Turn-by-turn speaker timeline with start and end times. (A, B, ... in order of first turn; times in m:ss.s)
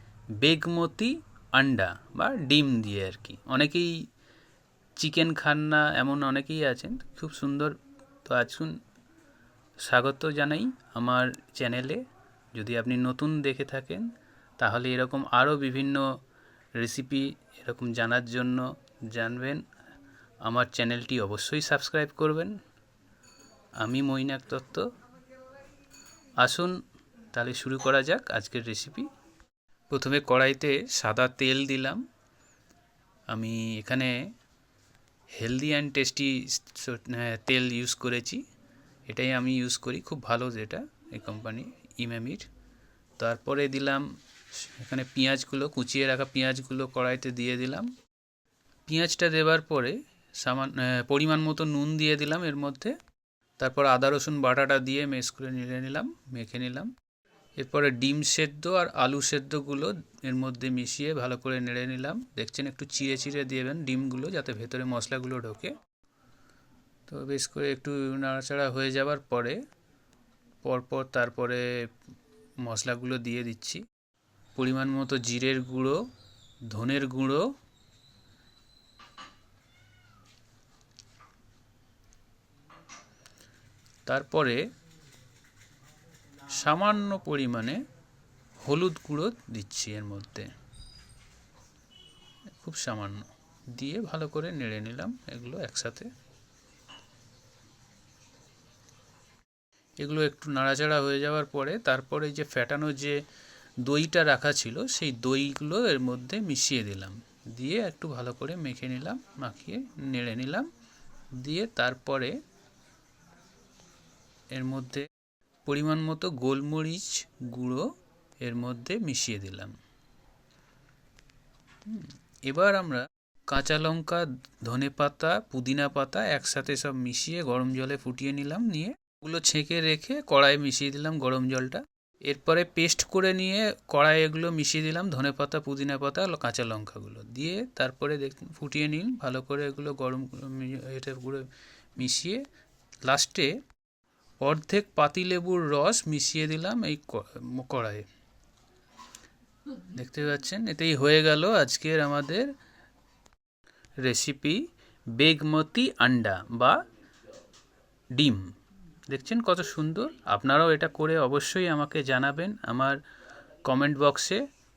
0:00.4-0:04.0 A
0:05.0-0:08.8 A
0:09.8-0:12.0 A
0:12.5-0:14.1 A
0:14.6-0:16.1 A
0:16.8-0:19.6 A
0:20.4-0:22.6 A
0:23.8-0:24.9 A
0:26.4-0:26.8 A
0:27.3-0:29.1 A
0:29.9-0:32.0 A
0:33.3-0:34.2 A
0:35.4-0:38.4 A
0:39.1-0:42.5 A
0:43.2-0:47.9 A
0:48.9-0:53.0 A
0:53.6-0:56.9 A
0:57.6-1:05.8 A
1:07.1-1:09.6 A
1:10.6-1:11.7 A
1:12.6-1:13.8 A
1:14.5-1:16.0 A
1:16.7-1:17.5 A
1:24.1-1:24.6 A
1:26.4-1:27.8 A
1:28.6-1:30.5 A
1:32.6-1:36.1 A
1:40.0-1:43.2 A
1:43.8-1:50.7 A
1:51.3-1:52.3 A
1:54.5-1:55.0 A
1:55.6-1:57.9 A
1:58.4-1:59.7 A
2:01.8-2:22.4 A
2:23.0-2:23.6 A
2:24.4-2:28.1 A
2:29.7-2:32.5 A
2:34.0-2:36.8 A
2:38.1-2:38.5 A
2:39.1-2:43.0 A
2:43.6-2:44.4 A